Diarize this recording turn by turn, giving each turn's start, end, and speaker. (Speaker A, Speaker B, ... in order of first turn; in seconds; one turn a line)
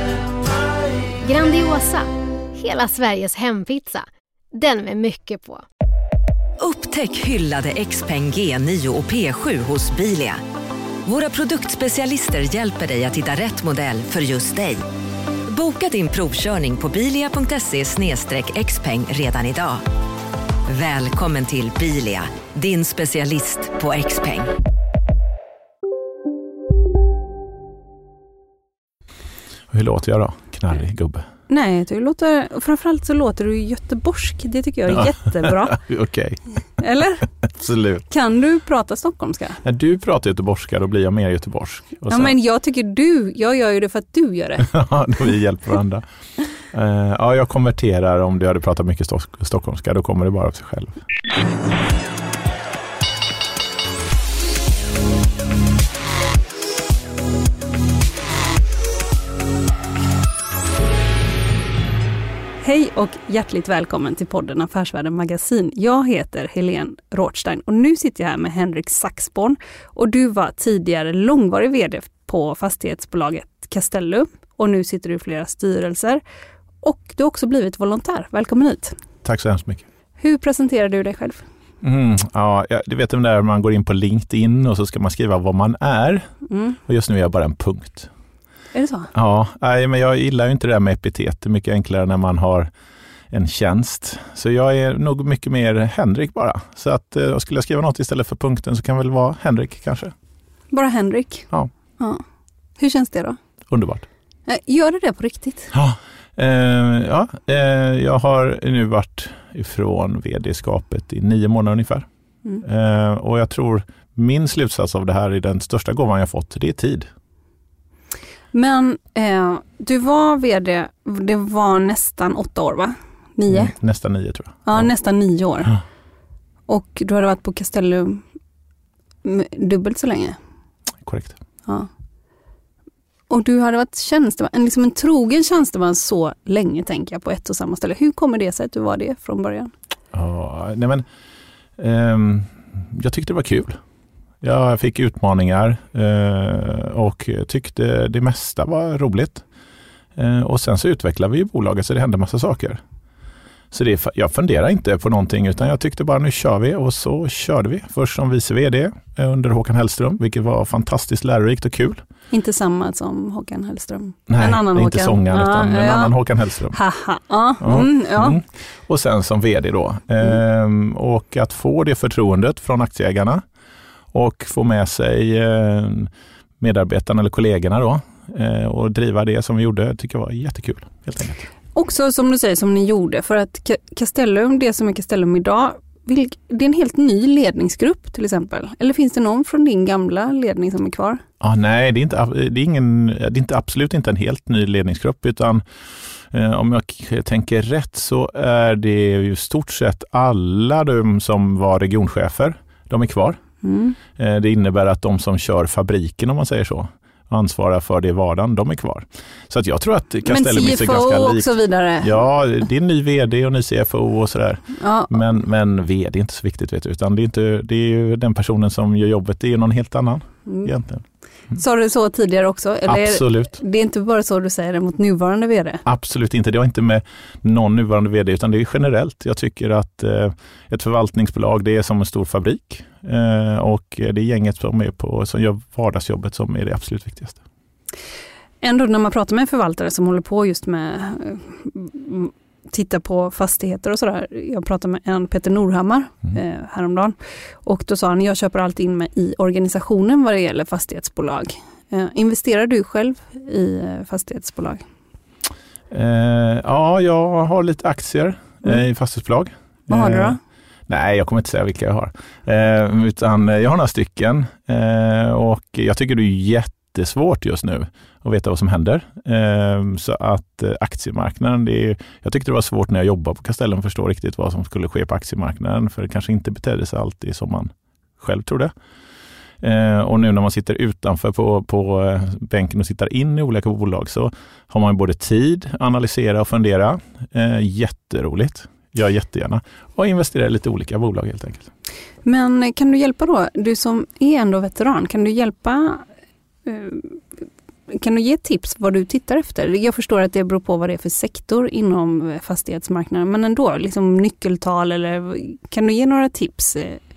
Speaker A: 1.2-5.6
Speaker B: 6.6-10.4
Speaker B: 11.0-14.8
Speaker B: 15.5-19.8
Speaker B: 20.7-24.5
Speaker C: 29.7-31.3
Speaker D: 31.5-35.8
Speaker C: 34.9-36.8
Speaker D: 36.8-37.2
Speaker C: 37.4-38.0
Speaker D: 38.1-39.6
Speaker C: 39.6-42.3
Speaker D: 42.1-44.7
Speaker C: 44.6-46.0
Speaker C: 46.7-51.0
Speaker D: 62.6-76.2
Speaker D: 76.8-79.0
Speaker C: 79.2-79.8
Speaker D: 80.2-81.4
Speaker C: 81.8-86.3
Speaker D: 86.5-86.8
Speaker C: 86.8-88.1
Speaker D: 88.7-89.1
Speaker C: 89.1-92.7
Speaker C: 93.3-100.1
Speaker D: 100.7-101.5
Speaker D: 102.8-103.4
Speaker C: 103.7-104.0
Speaker D: 104.5-105.7
Speaker C: 105.7-112.1
Speaker C: 112.6-117.1
Speaker D: 118.5-123.7
Speaker C: 123.5-124.9
Speaker D: 124.6-125.7
Speaker D: 126.7-128.2
Speaker D: 129.2-130.4
Speaker C: 131.0-131.4
Speaker D: 133.3-139.7
Speaker C: 140.1-141.0
Speaker C: 141.8-143.8
Speaker C: 144.4-149.4
Speaker C: 150.1-152.8
Speaker C: 153.7-162.0
Speaker D: 162.3-166.1
Speaker C: 164.3-166.8
Speaker D: 166.7-168.4
Speaker C: 167.6-173.4
Speaker C: 174.1-181.5
Speaker D: 181.7-191.2
Speaker C: 191.4-203.4
Speaker D: 203.6-204.0
Speaker C: 204.1-221.0
Speaker D: 210.2-212.1
Speaker D: 214.8-215.1
Speaker D: 221.5-225.8
Speaker C: 222.9-223.6
Speaker C: 225.8-237.4
Speaker D: 238.6-254.8
Speaker C: 255.9-278.7
Speaker D: 259.9-260.4
Speaker C: 279.6-291.7
Speaker D: 292.2-296.1
Speaker D: 296.6-297.2
Speaker D: 297.9-307.0